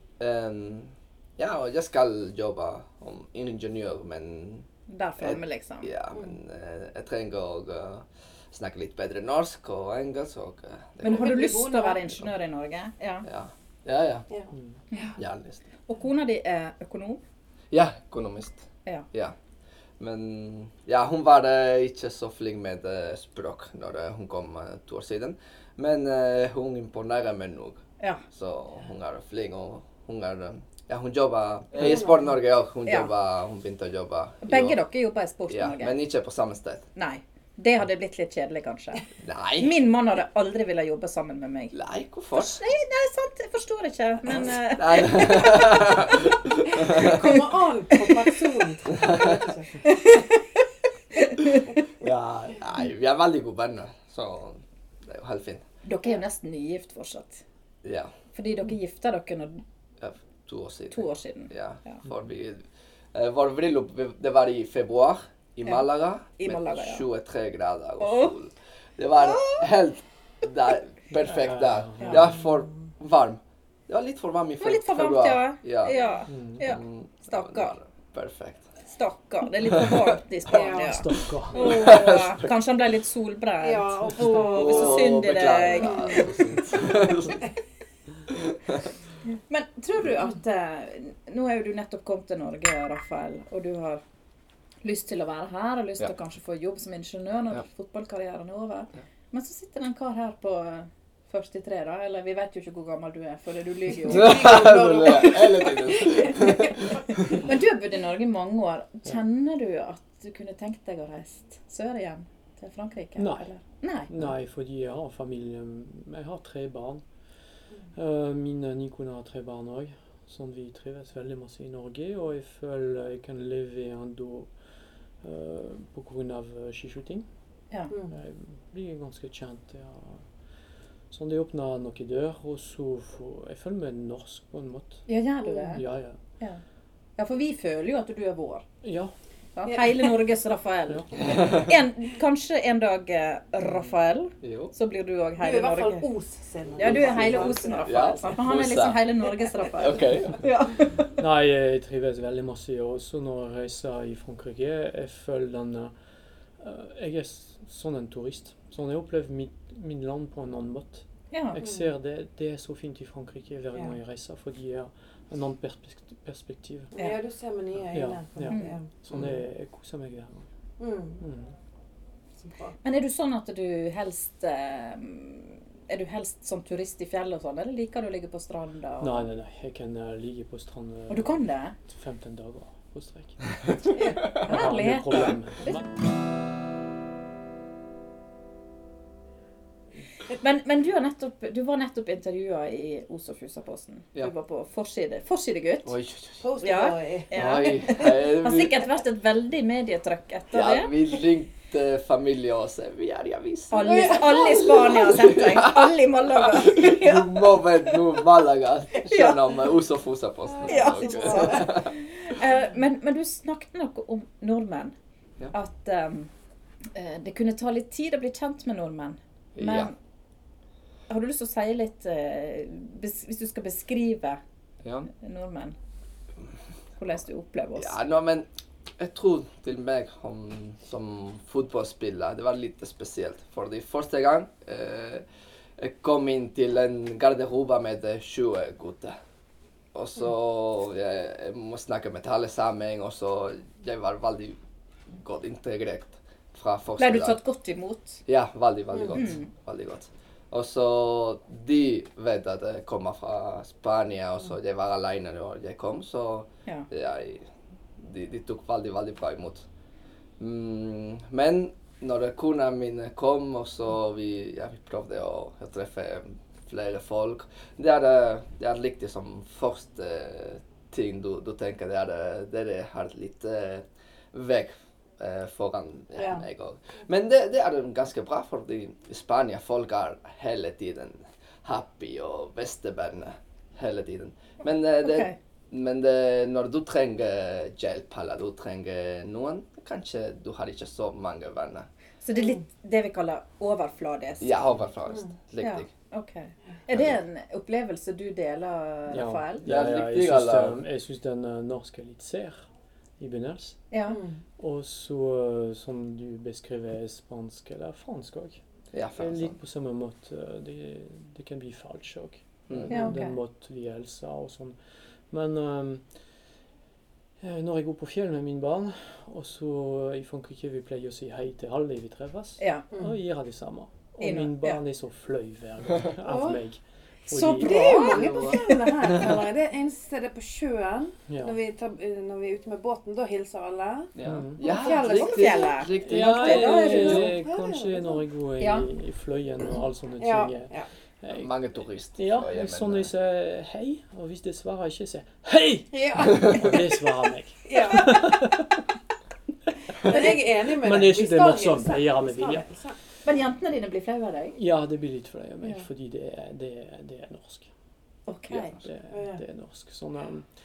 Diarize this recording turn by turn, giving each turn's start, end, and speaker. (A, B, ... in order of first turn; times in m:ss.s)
0:00.2-0:04.7 A
0:04.9-0:05.9 B
0:05.2-0:11.5 A
0:11.0-0:13.3 B
0:11.0-0:12.0 C
0:13.2-0:14.3 A
0:14.3-0:15.1 C
0:14.9-0:15.2 B
0:15.2-0:15.6 A
0:15.9-0:17.2 B
0:17.7-0:19.3 A
0:20.0-0:27.8 A
0:28.3-0:34.8 A
0:31.8-0:32.2 C
0:32.8-0:33.1 B
0:34.4-0:36.0 B
0:35.5-0:36.8 A
0:37.0-0:39.1 B
0:39.2-0:39.7 A
0:39.6-0:41.7 B
0:41.7-0:42.6 A
0:42.3-0:45.9 B
0:44.8-0:47.2 A
0:46.8-0:49.8 C
0:46.9-0:47.4 B
0:47.9-0:48.3 B
0:49.0-0:49.4 A
0:49.8-0:50.4 B
0:51.1-0:51.7 B
0:52.0-0:55.6 A
0:55.8-0:57.4 B
0:57.8-0:58.1 A
0:58.3-0:59.6 B
1:00.0-1:02.6 A
1:00.9-1:02.0 B
1:03.1-1:15.9 A
1:06.4-1:07.0 B
1:08.0-1:08.3 B
1:09.3-1:09.6 B
1:11.1-1:12.3 D
1:14.6-1:17.8 B
1:16.3-1:16.6 D
1:16.6-1:18.6 A
1:18.9-1:26.6 B
1:19.7-1:20.0 A
1:20.5-1:21.0 C
1:20.8-1:21.6 D
1:21.5-1:22.5 A
1:23.6-1:25.2 C
1:24.3-1:27.4 A
1:25.8-1:26.5 C
1:28.3-1:28.8 A
1:29.5-1:34.0 B
1:34.8-1:44.6 B
1:44.0-1:46.8 C
1:44.1-1:46.7 A
1:46.1-1:54.1 B
1:53.2-1:53.5 D
1:54.1-1:57.0 D
1:57.9-2:04.5 D
2:05.2-2:07.2 D
2:08.1-2:10.2 D
2:11.1-2:15.0 D
2:15.1-2:15.8 B
2:15.7-2:16.2 D
2:17.2-2:18.6 B
2:18.8-2:19.1 D
2:19.6-2:26.1 B
2:19.6-2:20.1 C
2:24.4-2:24.7 A
2:25.4-2:28.0 C
2:26.8-2:31.1 B
2:26.8-2:29.0 A
2:29.8-2:30.4 A
2:31.2-2:35.9 D
2:36.6-2:46.9 D
2:41.3-2:41.6 B
2:41.6-2:41.9 C
2:46.9-2:48.9 C
2:47.9-2:50.4 D
2:48.5-2:48.8 B
2:50.8-2:51.2 C
2:51.2-2:51.5 D
2:52.4-2:52.7 C
2:52.8-2:59.3 B
2:59.0-3:03.6 D
3:01.1-3:01.7 B
3:04.0-3:04.3 C
3:04.0-3:05.8 B
3:04.3-3:05.8 D
3:10.4-3:15.9 B
3:15.8-3:16.4 A
3:16.4-3:17.3 C
3:16.6-3:20.9 B
3:17.3-3:18.8 A
3:20.5-3:24.2 A
3:23.7-3:28.0 B
3:23.9-3:25.0 C
3:25.1-3:25.8 A
3:26.5-3:31.9 A
3:29.0-3:29.5 B
3:30.6-3:31.7 C
3:30.6-3:34.9 B
3:35.5-3:36.3 B
3:36.9-3:39.9 B
3:39.6-3:39.9 A
3:41.1-3:44.4 B
3:44.8-3:45.1 A
3:45.1-3:45.8 B
3:47.0-3:48.0 B
3:47.8-3:48.5 A
3:49.0-3:55.2 A
3:55.8-3:59.2 A
3:59.9-4:04.6 A
4:05.2-4:07.4 A
4:07.0-4:08.2 B
4:08.2-4:17.4 A
4:08.9-4:09.2 C
4:09.1-4:09.5 B
4:18.0-4:19.6 A
4:20.4-4:51.9 A
4:36.2-4:36.4 C
4:45.0-4:45.4 B
4:52.2-4:54.6 B
4:54.4-4:55.9 A
4:55.6-4:59.6 B
4:56.9-4:57.2 A
4:59.1-5:02.6 D
4:59.6-5:00.8 A
5:03.2-5:03.8 D
5:03.9-5:04.2 B
5:04.1-5:04.4 C
5:04.6-5:08.6 D
5:08.9-5:09.5 A
5:09.2-5:14.8 D
5:12.9-5:13.4 B
5:15.3-5:16.0 D
5:17.4-5:28.1 D
5:22.6-5:22.8 B
5:24.2-5:24.8 B
5:26.2-5:26.6 C
5:27.3-5:28.8 B
5:27.5-5:35.8 C
5:28.1-5:28.6 A
5:31.3-5:31.6 D
5:34.2-5:37.2 A
5:34.2-5:34.6 D
5:34.6-5:37.3 B
5:36.0-5:41.5 D
5:36.8-5:38.2 C
5:38.6-5:38.8 B
5:40.2-5:40.9 C
5:41.3-5:43.1 A
5:42.2-5:48.8 D
5:45.9-5:46.9 C
5:47.7-5:48.4 C
5:50.0-5:52.9 C
5:50.1-5:52.6 D
5:53.2-5:54.6 B
5:54.6-5:57.7 D
5:58.3-5:58.8 B
5:58.5-6:00.5 D
5:59.1-5:59.4 C